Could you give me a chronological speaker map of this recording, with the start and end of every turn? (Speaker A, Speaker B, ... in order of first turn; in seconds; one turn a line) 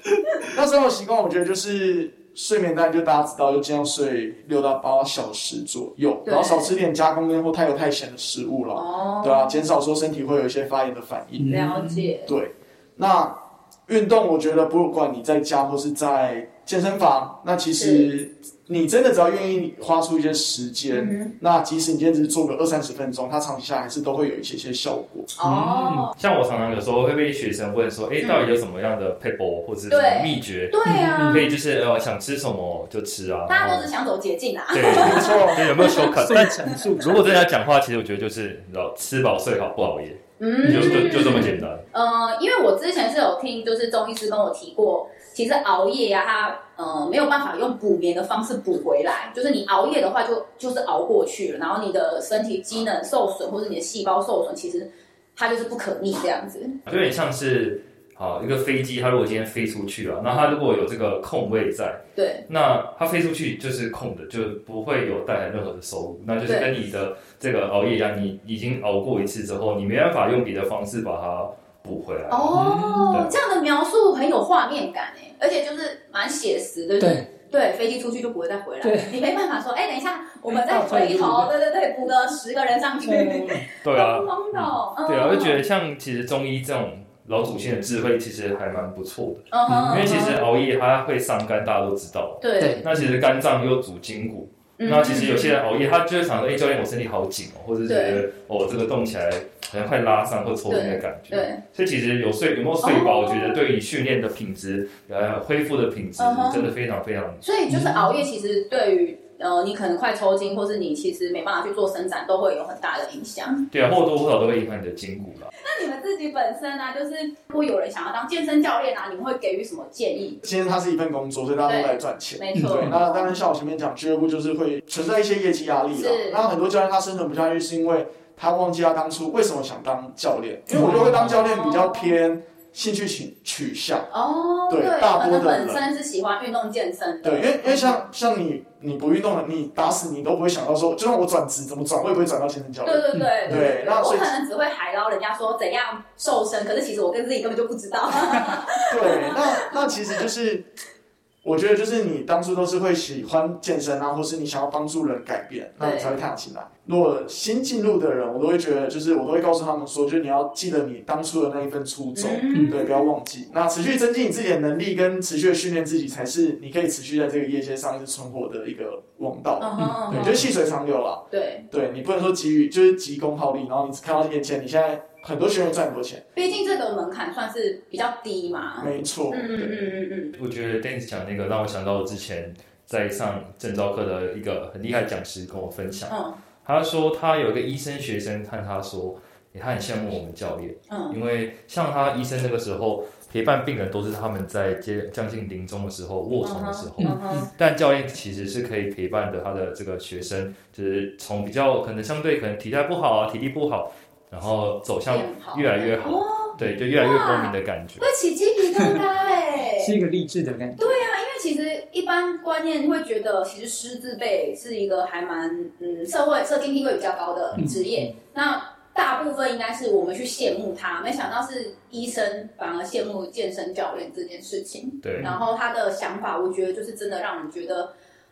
Speaker A: 0.4-11.7
Speaker B: 6.2-6.7
Speaker B: 8.7-9.6
Speaker C: 11.4-12.1
Speaker B: 11.5-12.3
Speaker A: 12.2-25.3
Speaker B: 17.8-18.1
Speaker B: 20.9-21.3
Speaker B: 25.3-26.1
Speaker C: 25.4-26.1
Speaker D: 26.2-33.9
Speaker B: 28.2-28.4
Speaker B: 29.9-31.5
Speaker C: 30.8-31.5
Speaker B: 33.5-36.1
Speaker D: 34.7-41.8
Speaker A: 34.9-35.7
Speaker C: 35.8-37.3
Speaker B: 40.4-56.8
Speaker C: 40.6-41.6
Speaker D: 56.9-72.6
Speaker B: 60.3-60.5
Speaker B: 62.1-62.5
Speaker B: 72.3-85.6
Speaker C: 72.5-73.2
Speaker C: 77.0-77.3
Speaker C: 78.8-79.2
Speaker C: 80.5-81.5
Speaker C: 83.0-83.7
Speaker D: 83.8-107.4
Speaker B: 89.5-90.4
Speaker C: 89.7-90.2
Speaker B: 92.4-92.8
Speaker C: 92.6-93.2
Speaker B: 94.8-95.6
Speaker B: 97.9-98.2
Speaker B: 100.7-101.6
Speaker B: 102.8-103.6
Speaker B: 106.2-106.7
Speaker B: 107.4-113.7
Speaker C: 107.7-108.1
Speaker D: 113.7-115.5
Speaker B: 115.6-120.4
Speaker A: 120.4-134.1
Speaker B: 121.7-123.3
Speaker C: 122.5-123.0
Speaker B: 125.9-126.5
Speaker C: 130.7-131.4
Speaker B: 131.1-132.1
Speaker B: 134.1-138.0
Speaker A: 134.7-135.8
Speaker A: 137.2-144.3
Speaker B: 142.8-149.9
Speaker C: 143.1-143.6
Speaker C: 148.3-148.6
Speaker A: 148.9-150.7
Speaker A: 151.4-176.2
Speaker B: 155.8-156.2
Speaker B: 162.1-163.0
Speaker B: 169.6-170.5
Speaker C: 169.8-170.3
Speaker B: 171.3-171.7
Speaker B: 176.3-180.3
Speaker A: 178.8-179.8
Speaker D: 180.3-208.1
Speaker B: 186.1-186.4
Speaker B: 190.9-191.2
Speaker B: 196.4-197.5
Speaker C: 197.0-197.5
Speaker B: 205.1-209.9
Speaker C: 209.8-210.9
Speaker B: 210.8-227.9
Speaker C: 217.6-218.1
Speaker D: 225.0-225.3